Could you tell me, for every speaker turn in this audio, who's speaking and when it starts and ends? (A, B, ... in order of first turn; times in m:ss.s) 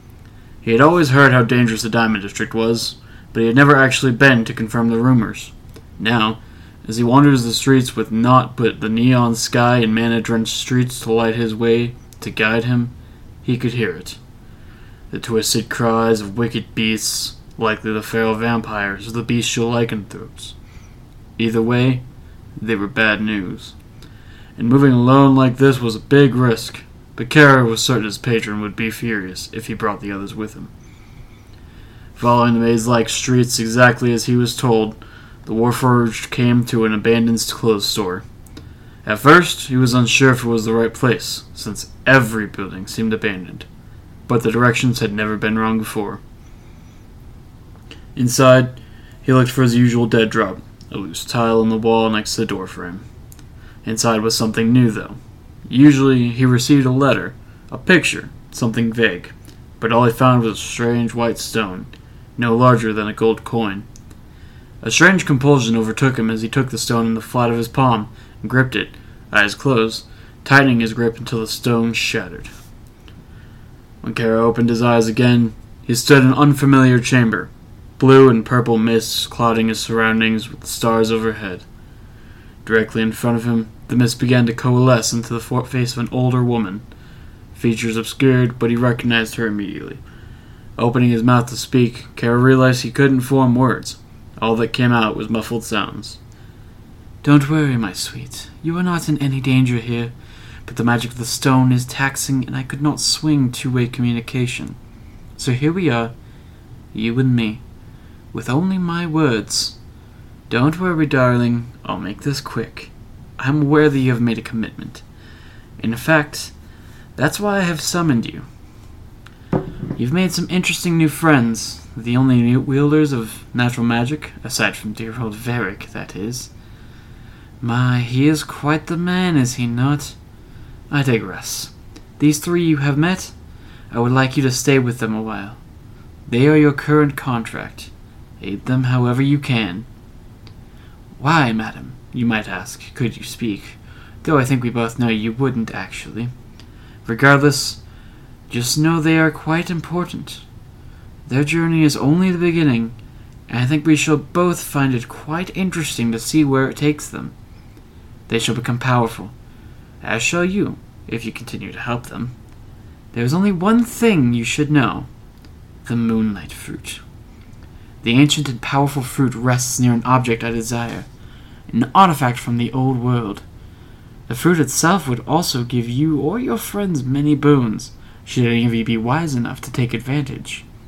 0:00.6-0:14.2 A
0:15.1-0:20.5 A
0:21.4-0:22.0 A
0:22.6-0:23.8 A
0:24.6-0:30.7 A
0:32.2-0:38.2 A
0:39.0-0:43.7 A
0:44.3-0:46.2 A
0:48.2-0:53.0 A
0:53.8-1:03.9 A
1:04.8-1:12.5 A
1:14.0-1:21.6 A
1:22.6-1:26.8 A
1:27.5-1:30.0 A
1:30.8-1:36.2 A
1:37.2-1:40.1 A
1:40.7-1:44.8 A
1:45.4-1:46.1 A
1:46.9-1:47.6 A
1:48.3-1:49.8 A
1:50.5-1:55.0 A
1:55.8-1:56.5 A
1:57.2-1:58.4 A
2:00.0-2:06.5 A
2:07.6-2:10.2 A
2:10.9-2:13.3 A
2:13.9-2:15.6 A
2:16.3-2:19.9 A
2:21.2-2:26.3 A
2:27.0-2:27.8 A
2:28.5-2:30.4 A
2:31.3-2:33.0 A
2:33.5-2:37.3 A
2:38.3-2:39.3 A
2:40.0-2:42.3 A
2:43.1-2:45.1 A
2:45.9-2:47.0 A
2:48.0-2:51.1 A
2:51.7-2:53.4 A
2:54.3-3:00.6 A